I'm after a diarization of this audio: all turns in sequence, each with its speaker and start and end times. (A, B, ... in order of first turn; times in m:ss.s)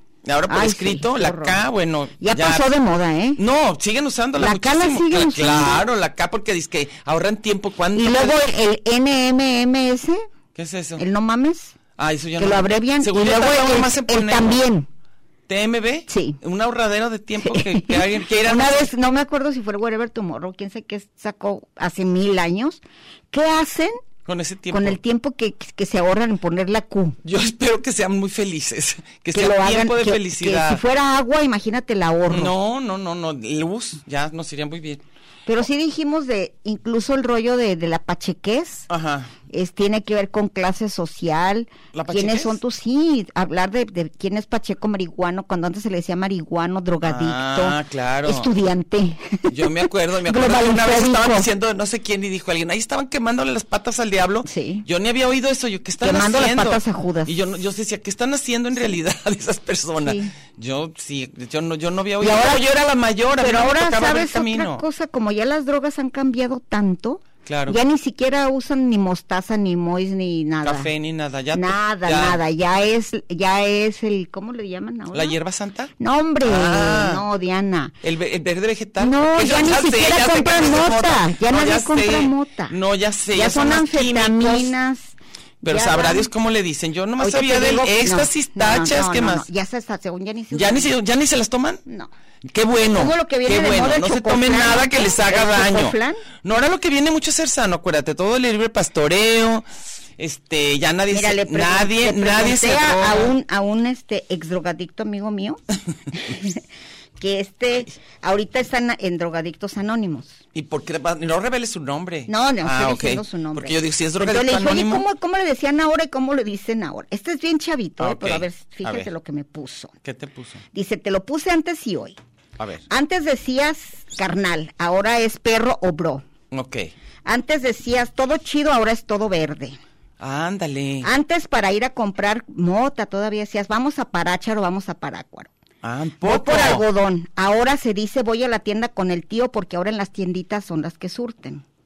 0:00.2-0:02.7 A
0:00.5-0:01.6 B
0:02.2-0:03.4 B
0:03.4-0:08.4 A
0:04.4-0:05.8 B
0:07.9-0:10.2 B
0:10.5-0:11.0 A
0:11.0-0:11.7 B
0:12.0-0:14.6 A
0:12.4-0:14.9 B
0:15.5-0:18.9 A
0:16.1-0:16.4 B
0:17.4-0:22.8 B
0:23.3-0:24.0 B
0:24.2-0:25.0 A
0:24.7-0:27.2 B
0:27.2-0:30.8 A
0:29.3-0:32.5 B
0:32.3-0:35.0 A
0:35.5-0:38.9 B
0:38.9-0:39.3 A
0:39.5-0:51.5 B
0:41.9-0:42.6 A
0:47.0-0:48.5 A
0:49.5-1:04.8 A
0:54.4-0:54.8 B
0:56.0-0:57.4 B
1:00.0-1:00.3 B
1:02.2-1:02.6 B
1:03.4-1:10.9 B
1:07.4-1:07.8 A
1:10.6-1:12.4 A
1:11.5-1:15.4 B
1:15.1-1:15.9 A
1:16.0-1:17.9 B
1:16.4-1:17.2 A
1:18.0-1:24.7 A
1:19.0-1:22.7 B
1:23.3-1:26.3 B
1:25.6-1:29.5 A
1:27.2-1:30.9 B
1:30.5-1:31.8 A
1:32.4-1:43.3 A
1:32.9-1:36.2 B
1:41.1-1:46.6 B
1:47.2-1:50.4 B
1:50.5-1:55.0 A
1:52.3-1:59.9 B
1:58.0-1:59.1 A
2:00.0-2:00.6 A
2:00.7-2:02.2 B
2:02.6-2:02.8 A
2:02.9-2:06.2 B
2:06.5-2:06.9 A
2:07.2-2:09.8 B
2:10.2-2:11.1 A
2:11.0-2:15.5 B
2:15.8-2:16.8 A
2:16.2-2:21.6 B